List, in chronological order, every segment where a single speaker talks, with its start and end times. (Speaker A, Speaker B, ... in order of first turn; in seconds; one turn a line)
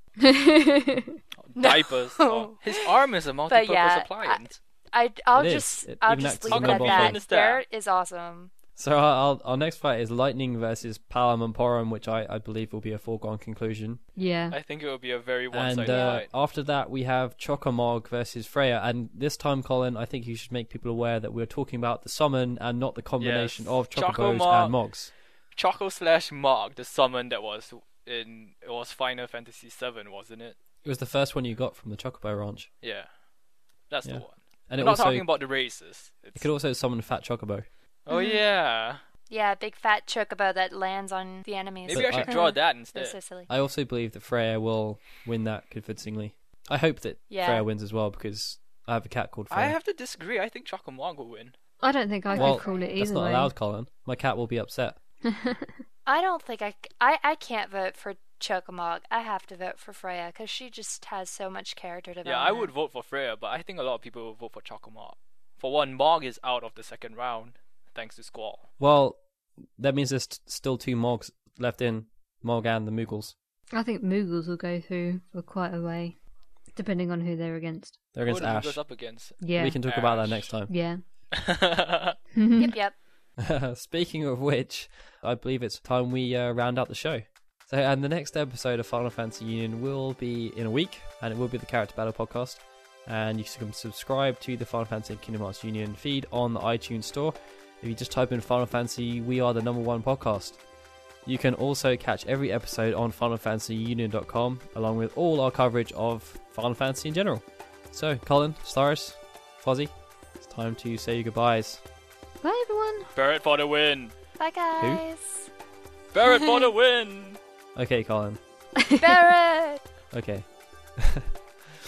Speaker A: 0.3-1.1
Speaker B: 1.4-4.6
Speaker C: 1.6-2.9
Speaker C: 3.5-8.5
Speaker D: 5.3-7.2
Speaker B: 6.5-7.6
Speaker D: 8.8-14.0
Speaker A: 14.2-14.6
Speaker B: 14.5-16.3
Speaker D: 15.5-25.1
Speaker C: 15.9-16.2
Speaker B: 23.2-24.9
Speaker B: 25.5-30.6
Speaker D: 30.8-32.7
Speaker B: 32.8-33.1
Speaker B: 33.9-36.5
Speaker D: 34.0-35.3
Speaker D: 36.4-37.7
Speaker B: 38.1-39.0
Speaker C: 38.1-38.4
Speaker C: 39.3-43.5
Speaker B: 41.8-43.2
Speaker D: 41.9-42.3
Speaker D: 43.5-49.8
Speaker C: 47.3-47.7
Speaker B: 49.5-51.5
Speaker A: 51.8-53.5
Speaker C: 52.3-53.0
Speaker D: 52.4-55.0
Speaker C: 56.1-62.7
Speaker B: 62.2-68.7
Speaker D: 68.8-69.2
Speaker D: 69.8-73.3
Speaker A: 73.7-76.2
Speaker A: 76.8-78.0
Speaker D: 78.1-78.9
Speaker B: 78.2-80.5
Speaker A: 79.4-79.8
Speaker D: 79.5-80.7
Speaker A: 80.7-81.0
Speaker B: 81.3-82.1
Speaker A: 82.3-82.7
Speaker C: 82.6-83.0
Speaker D: 83.4-100.6
Speaker D: 101.3-111.8
Speaker A: 112.4-113.1
Speaker B: 113.1-114.1
Speaker C: 114.4-115.5
Speaker B: 116.1-117.4
Speaker D: 117.8-118.4
Speaker C: 119.0-119.8
Speaker D: 120.1-121.3